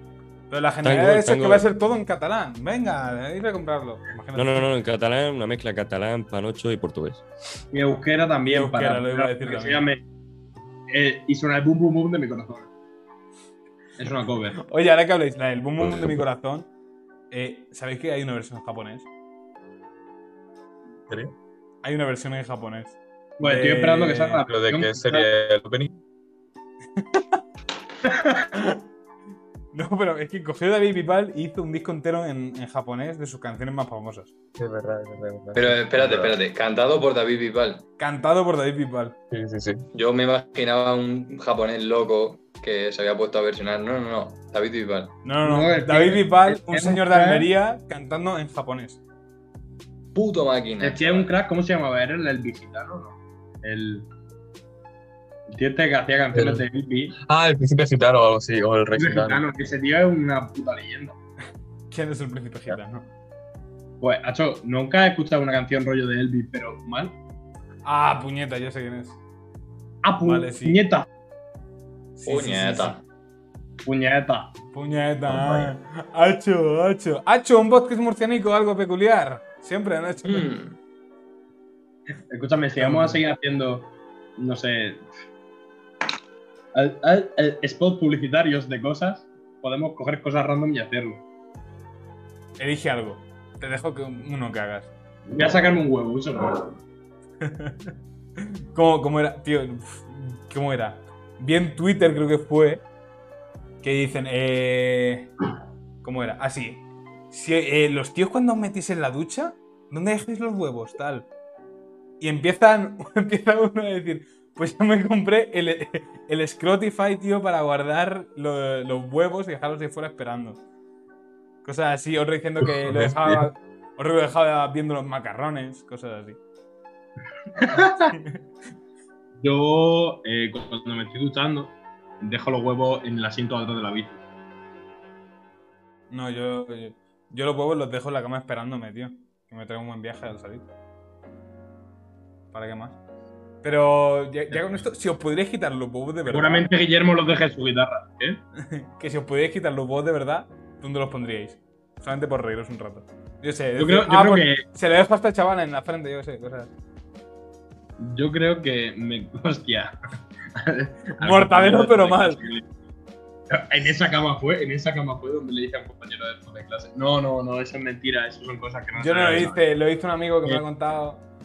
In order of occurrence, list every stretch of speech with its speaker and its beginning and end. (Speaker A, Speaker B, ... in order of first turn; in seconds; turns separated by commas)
Speaker A: 0.5-4.7, Speaker B: 0.8-1.7, Speaker B: 4.3-7.2, Speaker C: 7.7-10.0, Speaker A: 8.5-9.8, Speaker C: 10.9-12.7, Speaker C: 14.0-14.6, Speaker A: 14.6-16.7, Speaker B: 15.9-16.2, Speaker A: 17.3-19.1, Speaker A: 21.8-24.4, Speaker C: 23.4-25.3, Speaker D: 24.5-25.9, Speaker A: 27.0-27.4, Speaker C: 28.1-28.5, Speaker A: 29.7-34.3, Speaker D: 34.6-36.4, Speaker E: 35.5-37.8, Speaker A: 38.0-39.2, Speaker D: 39.3-39.9, Speaker E: 39.9-45.2, Speaker A: 45.2-49.0, Speaker C: 45.4-47.5, Speaker E: 50.1-51.3, Speaker C: 50.8-54.1, Speaker C: 55.5-57.2, Speaker D: 56.3-56.6, Speaker D: 57.2-59.4, Speaker C: 58.9-61.2, Speaker A: 61.9-63.1, Speaker C: 64.0-67.2, Speaker A: 67.8-69.2, Speaker C: 70.0-71.1, Speaker A: 70.2-70.8, Speaker A: 72.2-73.0, Speaker E: 72.3-73.0, Speaker C: 73.8-74.5, Speaker A: 74.7-80.5, Speaker D: 75.3-75.7, Speaker E: 80.2-80.8, Speaker C: 82.3-85.1, Speaker A: 82.8-83.2, Speaker C: 86.7-91.2, Speaker A: 92.6-94.9, Speaker C: 95.3-96.8, Speaker A: 97.4-97.8, Speaker A: 98.4-102.8, Speaker A: 103.8-105.3, Speaker A: 106.0-111.3, Speaker A: 112.2-120.6, Speaker A: 121.6-126.4, Speaker D: 122.6-123.5, Speaker C: 127.6-128.1, Speaker A: 128.1-128.4, Speaker C: 129.4-134.2, Speaker A: 136.1-140.7, Speaker A: 142.5-143.0, Speaker A: 143.6-146.7, Speaker C: 146.3-148.4, Speaker A: 148.6-156.7, Speaker C: 153.8-154.7, Speaker C: 158.0-160.0, Speaker C: 160.6-162.7, Speaker A: 161.2-162.4, Speaker C: 163.5-169.6, Speaker A: 169.0-171.2